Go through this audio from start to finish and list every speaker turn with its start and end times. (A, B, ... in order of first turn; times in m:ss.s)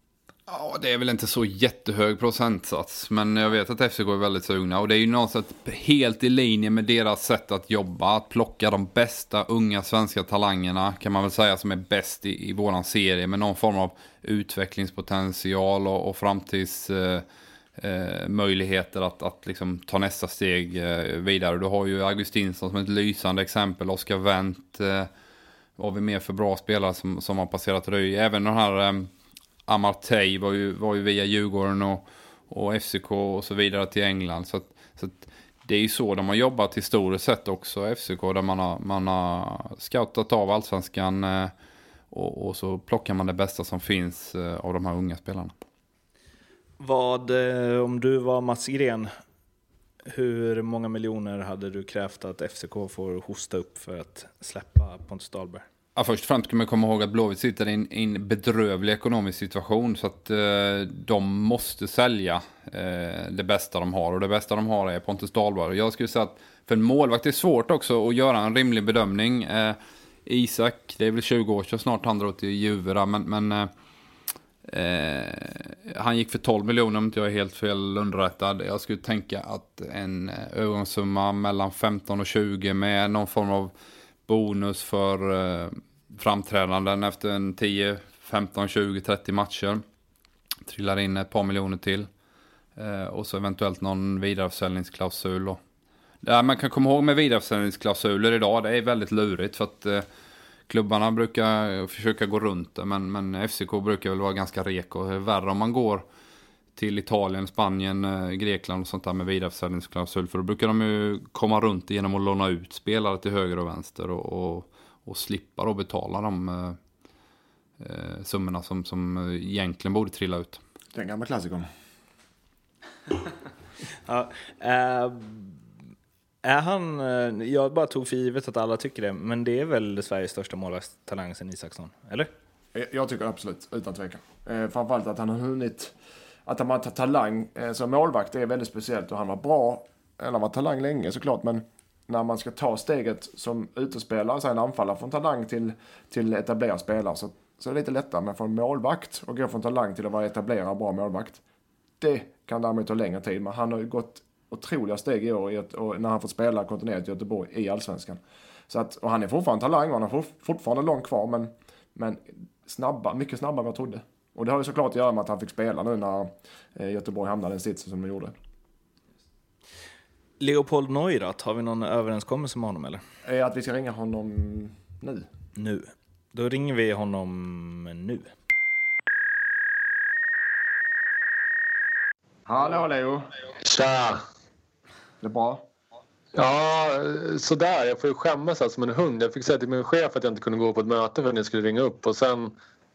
0:00.5-0:17.2 A
0:17.8-0:25.1 A
0:25.8-0:29.1 A
0:29.7-0:41.5 A
0:42.1-0:45.5 A
0:46.8-0:49.1 B
0:50.0-0:55.6 B
0:56.0-1:13.7 A
1:14.7-1:23.7 A
1:24.3-1:29.8 A
1:30.6-1:32.1 A
1:32.8-1:35.6 A
1:36.2-1:40.0 A
1:40.7-1:46.0 A
1:46.8-1:56.8 A
1:57.8-2:00.6 A
2:00.9-2:01.7 C
2:04.0-2:05.6 B
2:06.4-2:12.3 B
2:12.7-2:15.9 C
2:16.4-2:31.4 C
2:32.0-2:48.3 C
2:50.4-2:53.0 B
2:53.2-2:55.3 C
2:55.6-2:58.3 B
3:02.5-3:03.3 C
3:03.6-3:04.2 D
3:05.2-3:05.6 C
3:06.3-3:12.5 D